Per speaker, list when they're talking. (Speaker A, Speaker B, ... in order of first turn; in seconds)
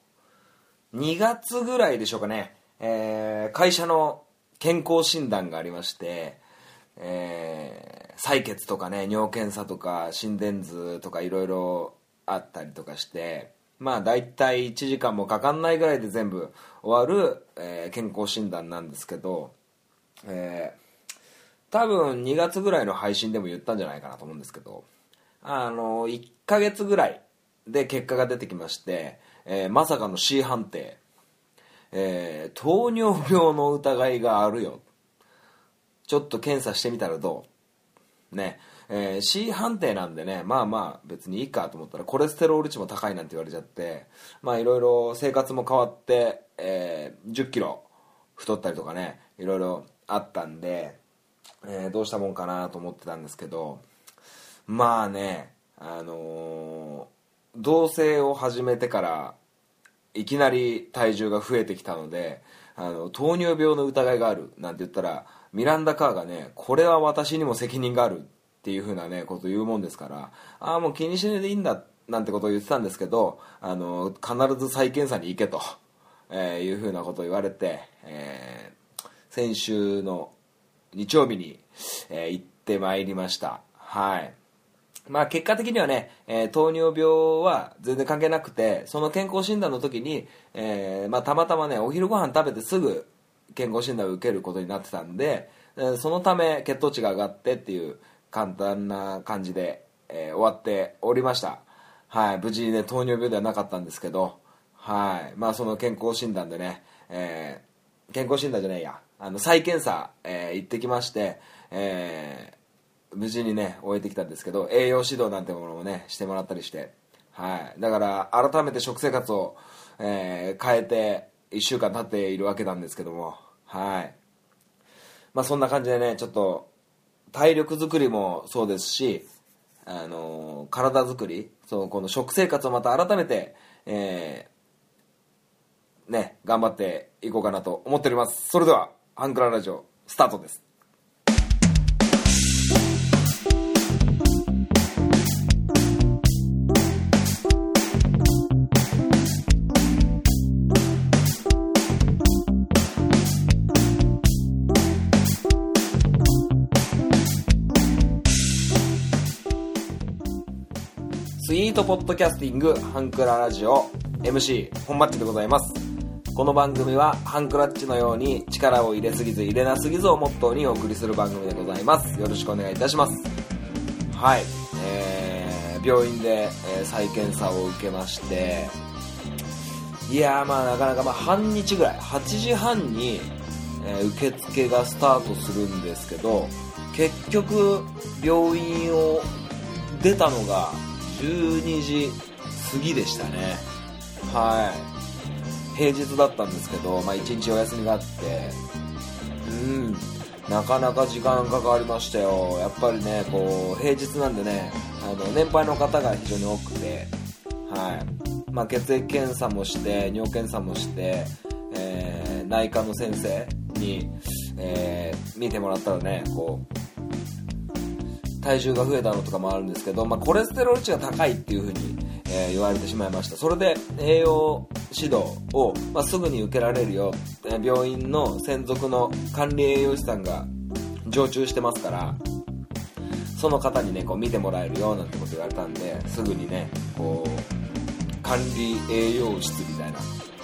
Speaker A: 0.9-6.4, 7.0-19.5, 20.2-20.8, 21.7-24.9, 25.4-31.0, 31.9-34.8, 36.0-37.5, 38.3-51.0, 51.6-53.8, 54.7-59.4, 60.1-75.8, 76.3-78.8, 79.3-80.3, 80.9-84.3, 85.1-112.6, 113.1-124.2, 125.3-126.7, 127.3-129.2, 129.8-134.5, 136.1-140.6, 161.4-165.8, 166.3-173.3, 174.1-178.7, 180.1-189.3, 189.8-193.7, 194.2-194.9, 195.7-198.6, 199.4-207.1, 207.7-216.7, 218.4-230.5, 231.1-232.2, 233.3-237.5, 238.2-240.1